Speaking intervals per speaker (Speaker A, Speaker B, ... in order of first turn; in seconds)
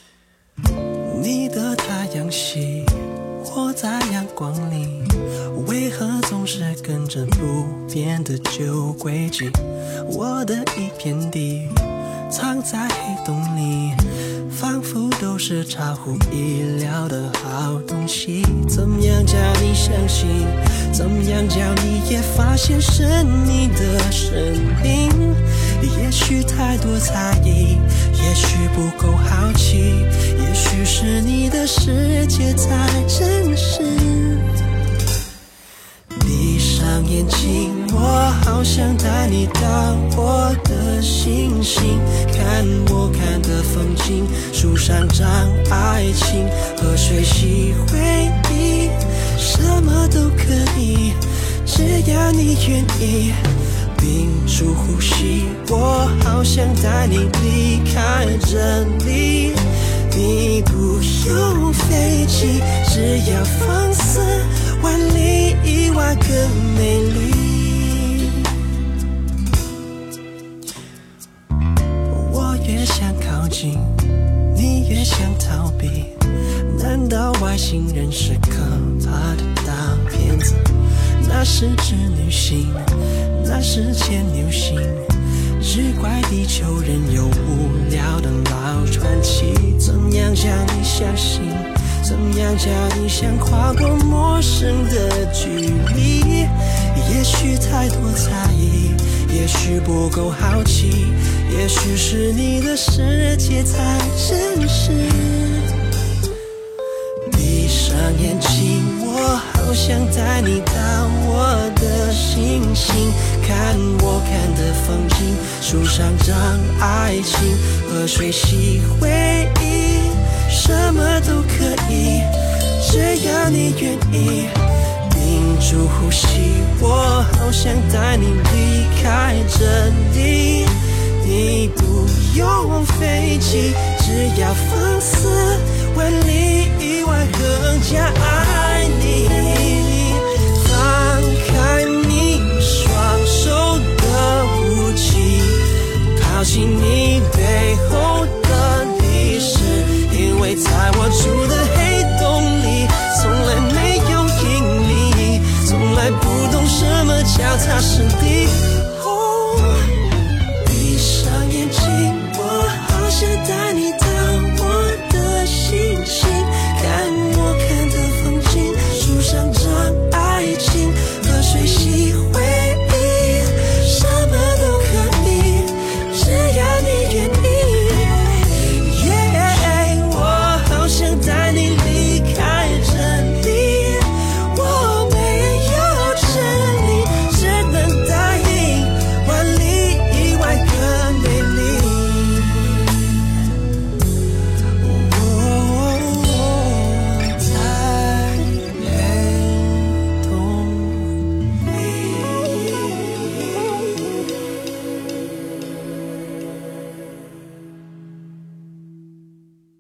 Speaker A: 1.0-34.5, 36.1-68.5, 72.1-105.7, 107.2-160.0, 160.6-193.1, 194.8-203.7